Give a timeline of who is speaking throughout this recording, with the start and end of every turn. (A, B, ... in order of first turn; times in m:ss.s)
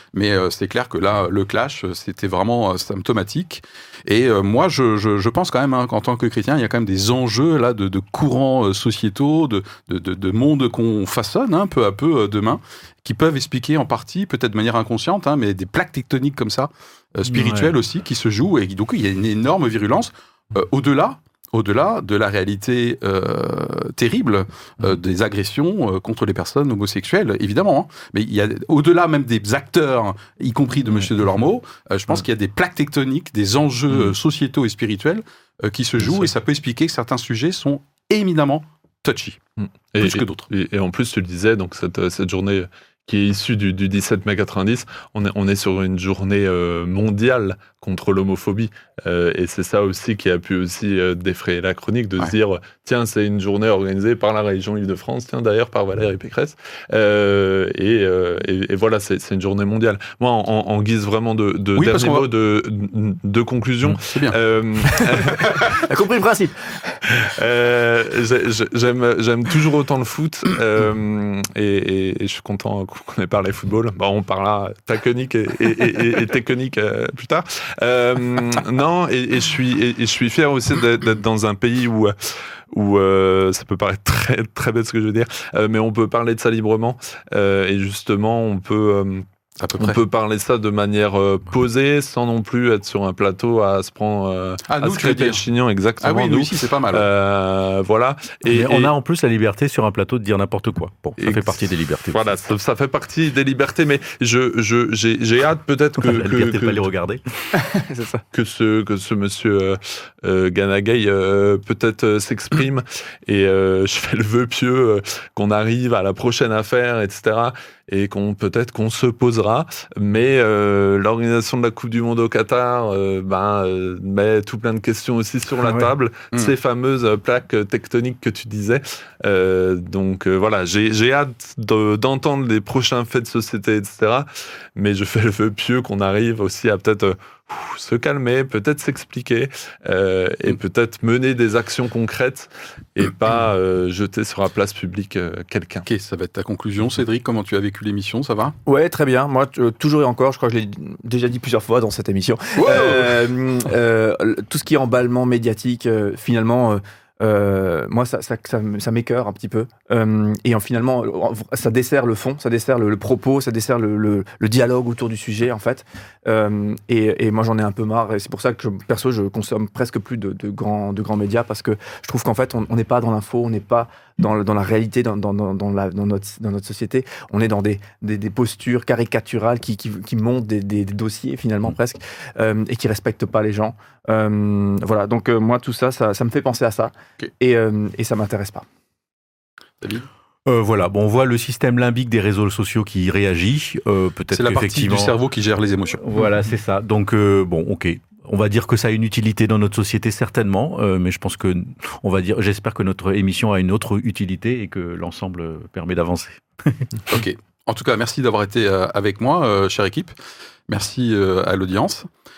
0:00.1-0:39.4 A
0:17.3-0:17.7 B
0:36.0-0:36.3 C
0:39.6-1:05.6 C
0:40.0-0:40.5 A
1:01.7-1:02.3 A
1:04.0-1:04.4 A
1:05.6-1:07.0 D
1:07.1-1:22.1 C
1:22.7-1:29.2 C
1:29.6-1:30.0 A
1:29.8-1:38.9 C
1:34.7-1:35.4 A
1:36.0-1:37.1 A
1:38.5-1:42.3 B
1:41.2-1:46.8 C
1:46.0-1:47.2 B
1:47.5-1:48.2 D
1:48.3-2:25.8 C
2:25.8-2:28.5 A
2:28.6-3:08.6 D
2:32.6-2:33.2 A
3:09.8-3:10.1 A
3:10.5-3:15.1 B
3:14.3-3:16.0 A
3:16.0-3:27.0 B
3:27.1-3:30.1 A
3:30.7-3:32.1 A